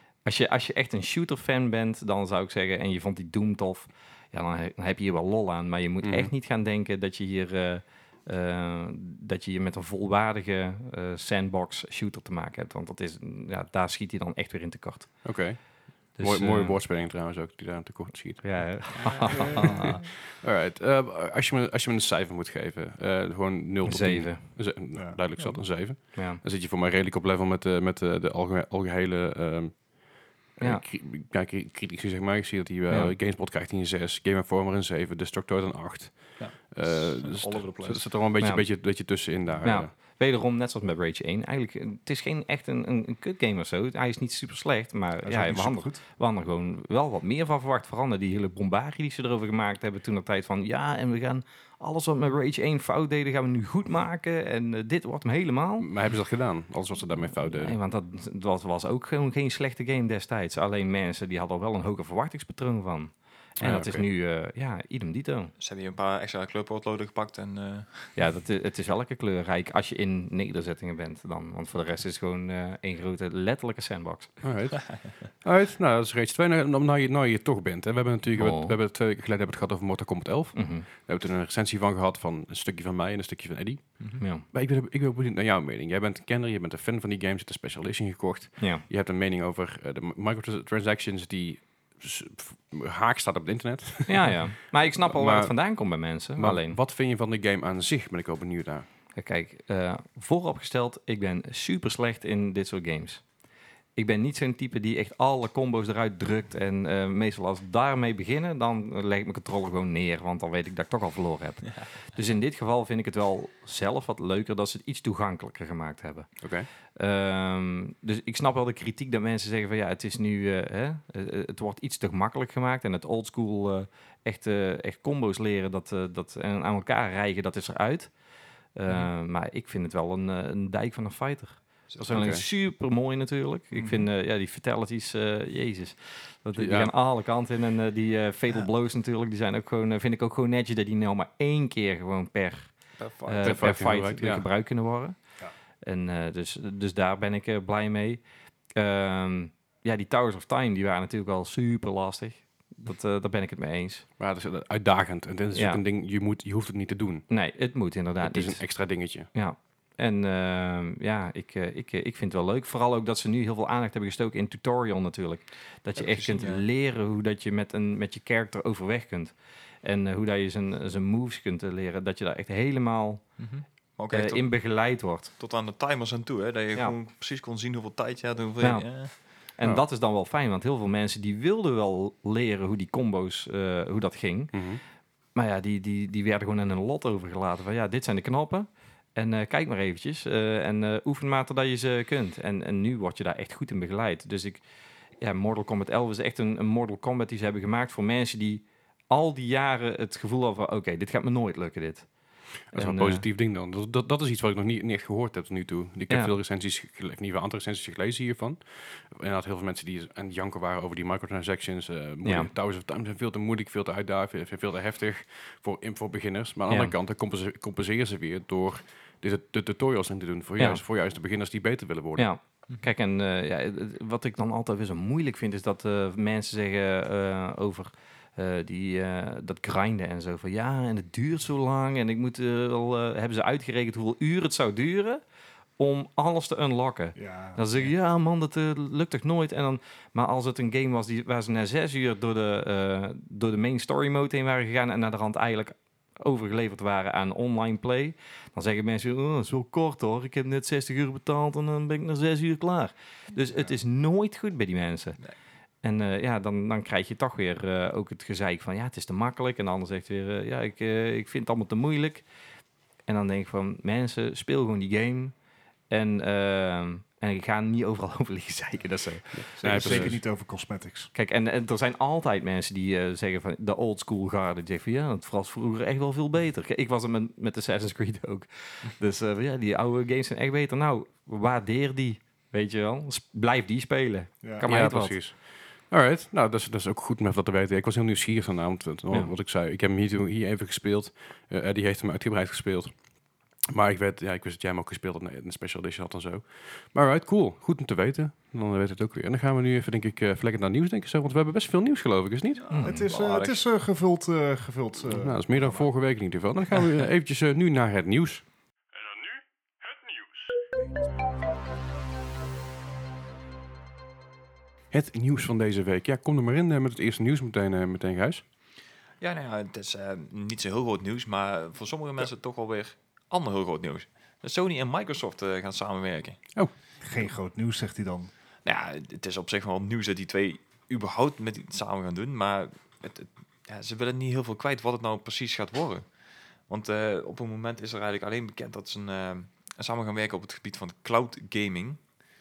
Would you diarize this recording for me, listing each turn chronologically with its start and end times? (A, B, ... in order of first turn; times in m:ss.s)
0:00.2-0:15.6 A
0:06.0-0:06.3 B
0:15.2-0:18.7 B
0:16.2-0:16.8 A
0:18.4-0:20.0 A
0:19.0-0:19.7 C
0:19.3-0:19.7 D
0:20.0-0:39.9 B
0:23.8-0:24.4 A
0:24.9-0:25.2 D
0:26.1-0:26.4 A
0:32.9-0:33.1 A
0:36.4-0:38.1 C
0:38.4-0:38.8 A
0:39.6-0:55.9 A
0:45.2-0:46.0 D
0:55.8-0:57.8 B
0:57.5-1:05.5 A
1:03.6-1:04.0 B
1:05.6-1:08.2 C
1:08.2-1:14.3 A
1:14.4-1:38.8 B
1:18.3-1:18.7 A
1:20.5-1:20.9 A
1:24.2-1:24.4 A
1:34.1-1:36.8 A
1:39.1-1:43.2 A
1:44.0-1:56.3 A
1:56.4-1:56.7 B
1:56.9-2:08.1 A
2:08.8-2:22.7 A
2:11.9-2:12.3 C
2:12.1-2:12.4 B
2:13.7-2:14.0 D
2:16.6-2:16.9 B
2:23.0-2:23.6 C
2:23.2-2:25.2 A
2:23.4-2:24.4 B
2:25.8-2:28.2 A
2:28.8-2:34.0 A
2:34.2-2:37.3 B
2:35.5-2:35.8 A
2:37.3-2:53.2 A
2:38.2-2:39.3 B
2:46.0-2:46.6 C
2:53.4-2:54.5 C
2:54.1-2:55.3 A
2:55.4-2:59.1 C
2:58.6-3:04.6 A
3:04.5-3:04.8 B
3:05.3-3:14.6 A
3:15.2-3:22.1 A
3:22.7-3:23.2 A
3:22.7-3:42.3 B
3:26.1-3:26.3 A
3:32.2-3:32.5 A
3:36.7-3:36.9 A
3:42.2-3:55.2 A
3:55.8-4:15.2 A
3:57.1-3:57.6 D
4:15.8-4:22.2 A
4:23.1-4:25.3 A
4:25.9-4:30.2 A
4:29.3-4:30.2 B
4:29.6-4:31.1 D
4:31.1-4:45.2 A
4:44.6-4:52.9 B
4:53.7-5:02.6 B
5:02.6-5:03.6 C
5:02.7-5:03.1 A
5:02.8-5:05.9 D
5:05.1-5:08.4 B
5:14.9-5:18.4 B
5:19.2-5:26.5 C
5:27.0-5:28.3 D
5:28.6-5:42.2 C